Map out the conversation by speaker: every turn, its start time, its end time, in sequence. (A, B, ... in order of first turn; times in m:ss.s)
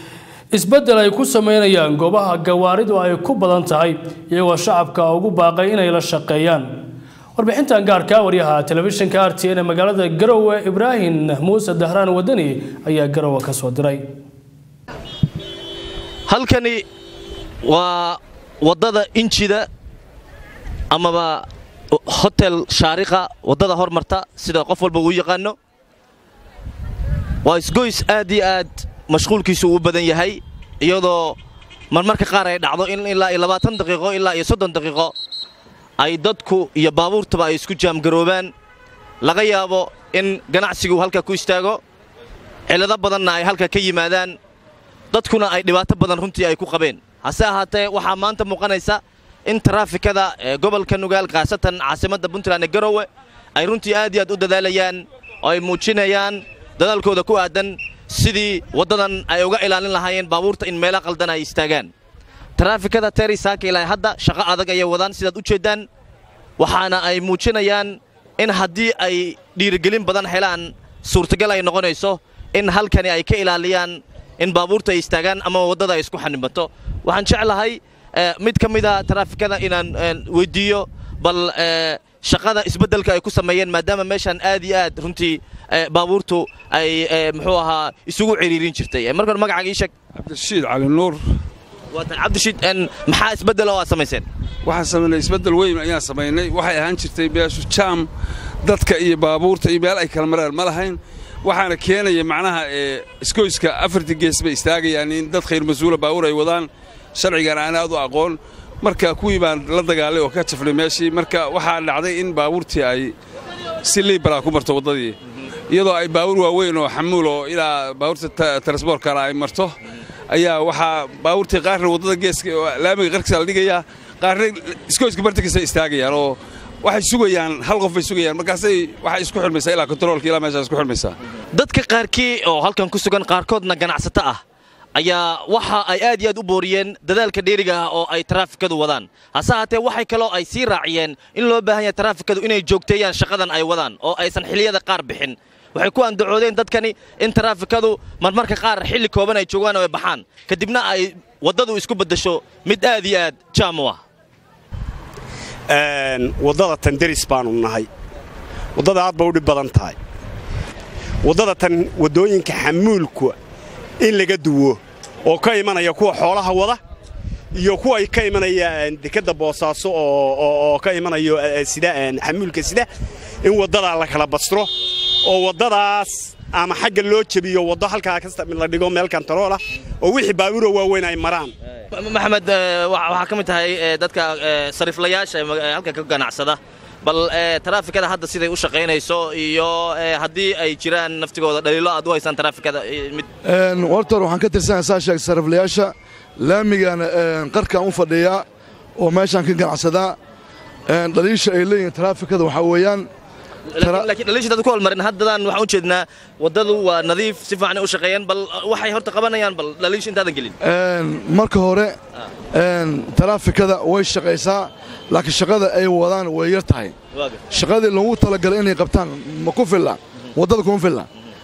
0:00.5-0:06.7 A
0:07.4-0:14.0 A
0:16.3-0:16.8 B
0:17.6-0:19.6 B
0:20.9-0:25.6 B
0:27.4-0:31.4 B
0:31.9-0:35.1 B
0:36.0-0:38.5 B
0:39.2-0:41.8 B
0:42.7-0:44.4 B
0:45.1-1:01.9 B
1:02.6-1:05.8 B
1:06.6-1:29.9 B
1:30.1-1:31.2 C
1:31.9-1:34.2 B
1:34.6-1:38.1 C
1:38.6-1:53.1 C
1:53.8-1:55.2 C
1:55.7-1:59.8 C
2:00.3-2:11.2 C
2:11.5-2:14.4 B
2:14.9-2:34.0 B
2:35.7-2:37.9 D
2:38.8-2:39.9 D
2:41.3-2:43.3 D
2:44.0-2:44.8 D
2:45.3-2:46.8 D
2:47.6-2:52.9 D
2:53.5-2:54.7 D
2:55.3-3:01.5 D
3:01.9-3:13.3 B
3:13.4-3:18.4 E
3:19.0-3:20.2 E
3:20.9-3:23.1 E
3:23.7-3:30.5 B
3:23.8-3:24.1 E
3:30.6-3:31.9 E
3:32.5-3:36.9 E
3:37.1-3:37.4 B
3:37.5-3:41.1 E